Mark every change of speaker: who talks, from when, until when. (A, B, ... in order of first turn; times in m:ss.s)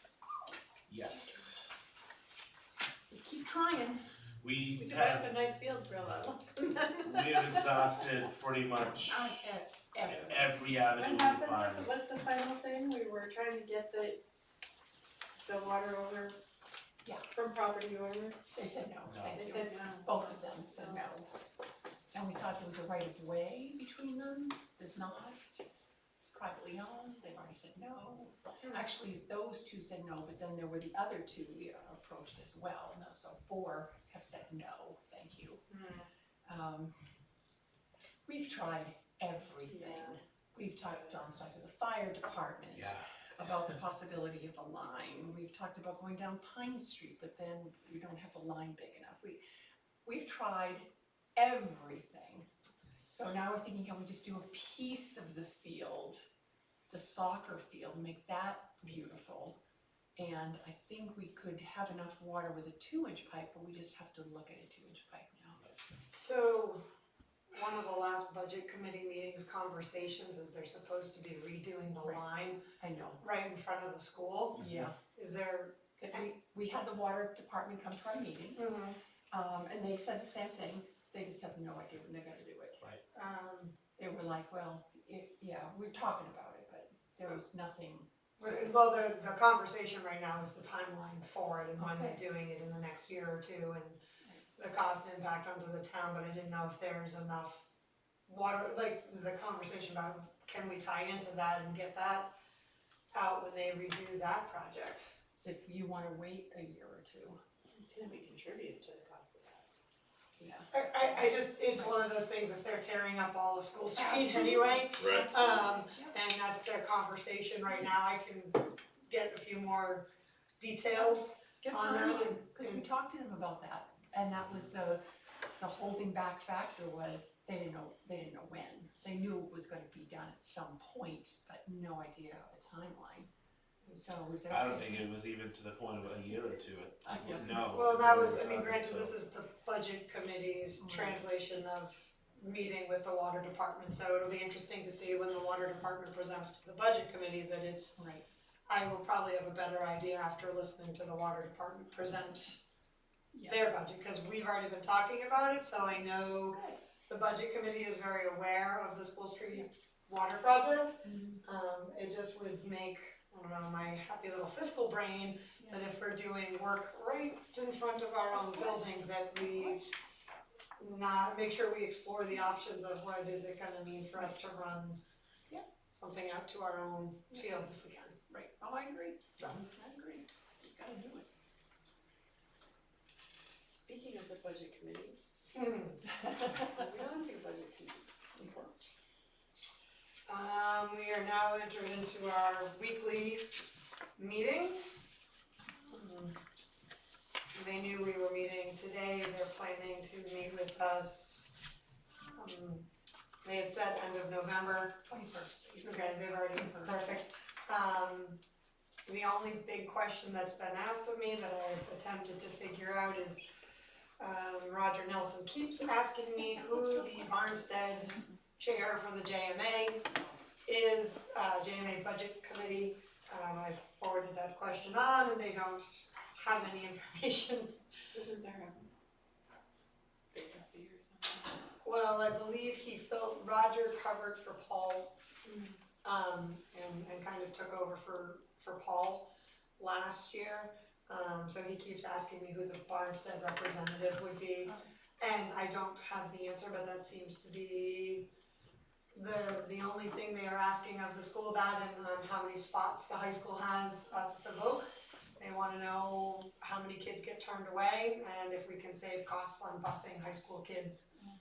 0:00.9-0:01.7 A
0:03.1-0:04.0 B
0:04.4-0:05.3 A
0:04.8-0:07.8 C
0:07.0-0:09.3 A
0:09.1-0:10.5 B
0:10.0-0:12.1 A
0:11.0-0:14.2 C
0:15.4-0:16.4 C
0:17.3-0:18.5 C
0:18.5-0:21.3 B
0:19.1-0:19.5 A
0:19.4-0:21.0 C
0:22.1-0:25.4 B
0:26.2-0:35.6 B
0:35.7-0:36.0 D
0:36.5-0:37.0 B
0:38.3-0:49.4 B
0:39.7-0:40.3 C
0:42.7-0:43.1 A
0:50.0-0:52.5 B
0:53.1-0:56.2 B
0:56.9-0:59.6 B
1:00.2-1:05.6 B
1:06.1-1:06.8 D
1:07.5-1:12.7 D
1:12.8-1:13.2 B
1:13.2-1:16.3 D
1:14.6-1:15.0 B
1:16.0-1:18.7 B
1:18.6-1:19.0 D
1:19.3-1:22.8 B
1:23.1-1:23.8 D
1:24.0-1:28.5 B
1:28.4-1:34.0 D
1:31.8-1:32.2 B
1:34.6-1:37.7 D
1:38.3-1:42.3 D
1:43.1-1:45.1 D
1:45.3-1:47.4 B
1:47.8-1:49.7 C
1:50.4-1:52.0 B
1:50.7-2:00.1 D
1:54.0-1:56.1 B
1:55.0-1:55.3 A
2:00.6-2:02.8 D
2:00.9-2:05.0 B
2:05.6-2:13.3 B
2:14.0-2:15.1 B
2:14.5-2:19.1 A
2:17.0-2:17.6 B
2:17.7-2:28.0 D
2:20.8-2:21.2 B
2:28.0-2:28.2 B
2:28.7-2:32.6 D
2:33.3-2:33.6 B
2:33.5-2:49.8 D
2:36.5-2:36.8 B
2:41.0-2:41.4 B
2:48.4-2:48.7 B
2:49.5-2:49.9 B
2:50.8-2:55.0 D
2:55.9-2:58.2 D
2:57.3-2:57.6 B
2:58.3-3:01.3 B
3:03.6-3:05.2 C
3:05.5-3:06.0 D
3:06.5-3:08.7 C
3:08.4-3:08.7 B
3:10.3-3:15.0 D
3:15.9-3:16.4 D
3:17.5-3:21.6 D
3:22.4-3:22.9 D
3:23.4-3:25.0 D
3:25.0-3:27.2 B
3:25.8-3:28.4 D
3:29.1-3:33.4 D
3:34.2-3:40.2 D
3:40.7-3:47.8 D
3:48.1-3:48.9 C
3:50.3-3:51.6 C
3:51.8-3:55.2 D
3:55.4-3:55.8 C
3:56.0-4:08.3 D
4:09.1-4:21.1 D